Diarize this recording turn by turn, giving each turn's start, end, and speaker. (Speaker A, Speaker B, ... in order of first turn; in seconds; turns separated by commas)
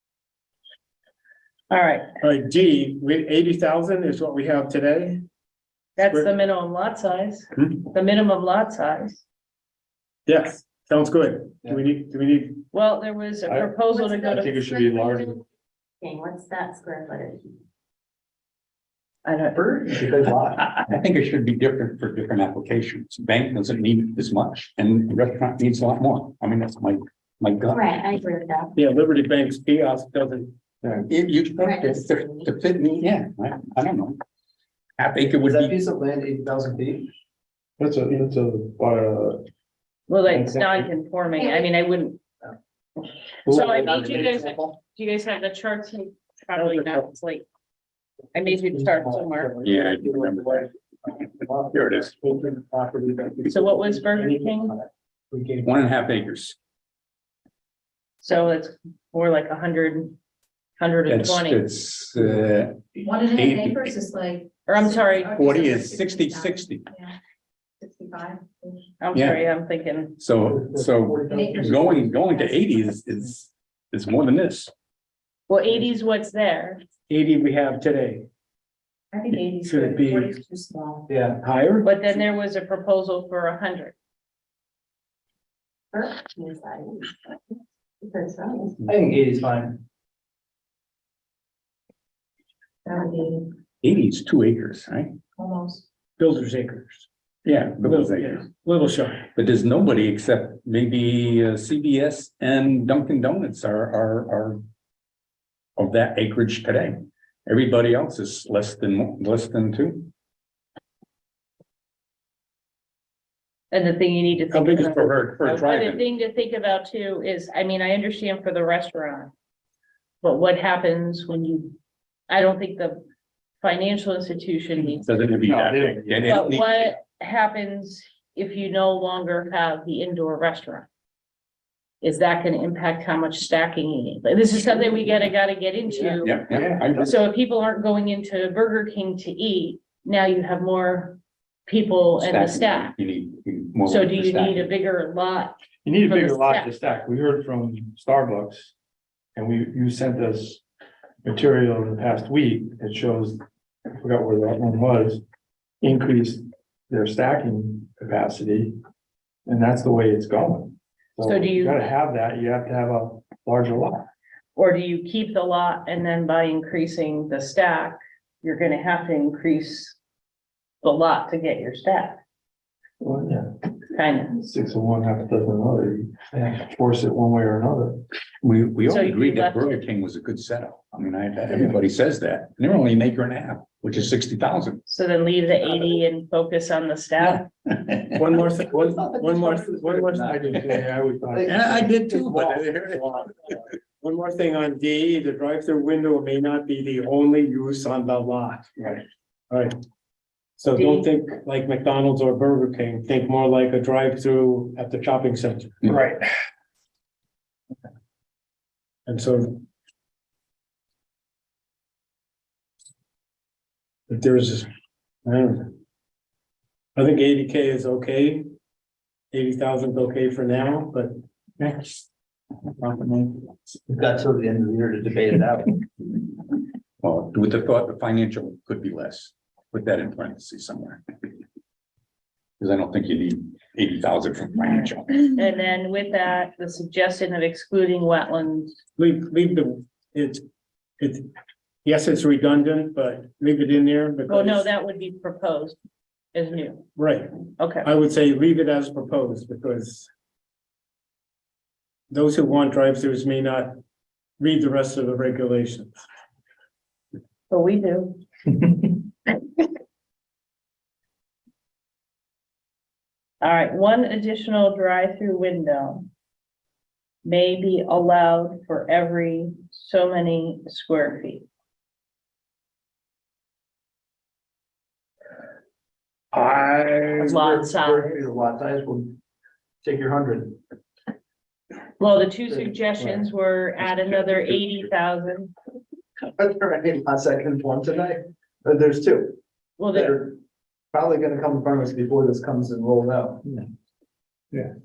Speaker A: 1.7-2.1, Speaker B: 2.2-5.2, Speaker A: 6.0-9.2, Speaker B: 10.3-12.6, Speaker A: 12.7-14.6, Speaker C: 13.4-15.4, Speaker D: 13.9-15.3, Speaker D: 16.0-17.5, Speaker A: 19.2-20.1, Speaker E: 19.9-20.6, Speaker F: 20.3-28.1, Speaker D: 27.7-28.8, Speaker B: 28.8-30.5, Speaker F: 31.1-34.2, Speaker D: 31.6-32.5, Speaker F: 35.0-35.8, Speaker E: 35.4-37.1, Speaker C: 37.8-39.5, Speaker A: 40.1-42.2, Speaker C: 40.3-40.9, Speaker D: 41.4-41.6, Speaker A: 43.5-47.5, Speaker E: 43.5-44.8, Speaker A: 48.3-49.6, Speaker F: 49.6-50.7, Speaker B: 50.3-50.5, Speaker F: 51.7-52.1, Speaker B: 51.9-55.7, Speaker A: 53.5-54.8, Speaker F: 55.6-56.6, Speaker A: 58.2-60.2, Speaker A: 60.8-61.6, Speaker F: 61.1-64.0, Speaker D: 63.0-67.1, Speaker A: 64.7-65.5, Speaker F: 65.2-66.9, Speaker D: 67.8-68.9, Speaker A: 69.0-70.2, Speaker F: 69.1-69.5, Speaker F: 70.2-74.7, Speaker C: 70.6-71.5, Speaker E: 71.2-71.8, Speaker D: 71.2-72.6, Speaker A: 75.5-76.8, Speaker B: 77.1-78.3, Speaker D: 79.1-81.1, Speaker B: 79.6-80.3, Speaker E: 81.1-81.4, Speaker B: 81.4-81.9, Speaker A: 81.8-84.0, Speaker D: 85.9-87.3, Speaker D: 88.0-88.9, Speaker E: 88.9-89.8, Speaker D: 92.9-93.5, Speaker F: 93.8-95.2, Speaker D: 95.4-95.8, Speaker B: 96.2-97.1, Speaker F: 97.5-98.5, Speaker B: 97.8-99.2, Speaker F: 99.3-104.6, Speaker F: 105.8-110.1, Speaker A: 113.7-119.3, Speaker F: 114.5-116.1, Speaker A: 120.2-121.8, Speaker A: 122.3-123.0, Speaker A: 123.6-125.1, Speaker F: 125.0-126.9, Speaker C: 125.5-126.5, Speaker A: 126.3-130.9, Speaker A: 132.0-136.4, Speaker F: 136.2-137.2, Speaker C: 136.3-137.1, Speaker A: 137.0-142.9, Speaker F: 142.2-144.7, Speaker A: 143.9-146.7, Speaker C: 145.8-148.7, Speaker C: 149.4-150.6, Speaker C: 151.2-155.2, Speaker C: 155.8-158.8, Speaker C: 159.5-164.1, Speaker A: 161.2-161.8, Speaker A: 164.6-170.0, Speaker A: 170.8-172.2, Speaker C: 173.0-173.5, Speaker A: 173.9-174.4, Speaker C: 174.3-178.0, Speaker F: 178.4-184.8, Speaker A: 178.9-179.8, Speaker A: 184.9-187.5, Speaker F: 187.2-188.3, Speaker B: 188.1-190.3, Speaker E: 188.4-190.5, Speaker C: 190.2-192.0, Speaker E: 191.3-191.7, Speaker F: 191.4-193.6, Speaker B: 192.9-193.3, Speaker B: 194.0-198.8, Speaker B: 199.5-199.8, Speaker B: 200.6-206.1, Speaker A: 200.8-201.1, Speaker C: 205.9-206.2, Speaker B: 209.1-209.6, Speaker B: 214.1-214.7, Speaker B: 215.2-215.8, Speaker B: 217.0-218.5, Speaker B: 219.3-221.2, Speaker F: 222.8-223.6, Speaker E: 223.9-225.8, Speaker F: 227.0-231.0, Speaker F: 232.6-235.4, Speaker A: 235.3-238.7, Speaker B: 239.0-240.4, Speaker B: 241.0-241.3, Speaker B: 241.8-244.7, Speaker A: 244.3-245.8, Speaker A: 246.3-246.9, Speaker B: 247.0-250.1, Speaker A: 247.6-247.9, Speaker B: 252.1-253.8, Speaker B: 254.4-256.0, Speaker A: 257.5-258.2, Speaker A: 263.4-266.1, Speaker A: 267.2-271.5, Speaker C: 276.3-277.3, Speaker E: 277.2-279.2, Speaker A: 277.2-278.2, Speaker E: 279.8-280.6, Speaker A: 282.0-285.5, Speaker E: 286.4-289.4, Speaker A: 289.8-290.2, Speaker E: 289.9-290.4, Speaker E: 290.9-293.4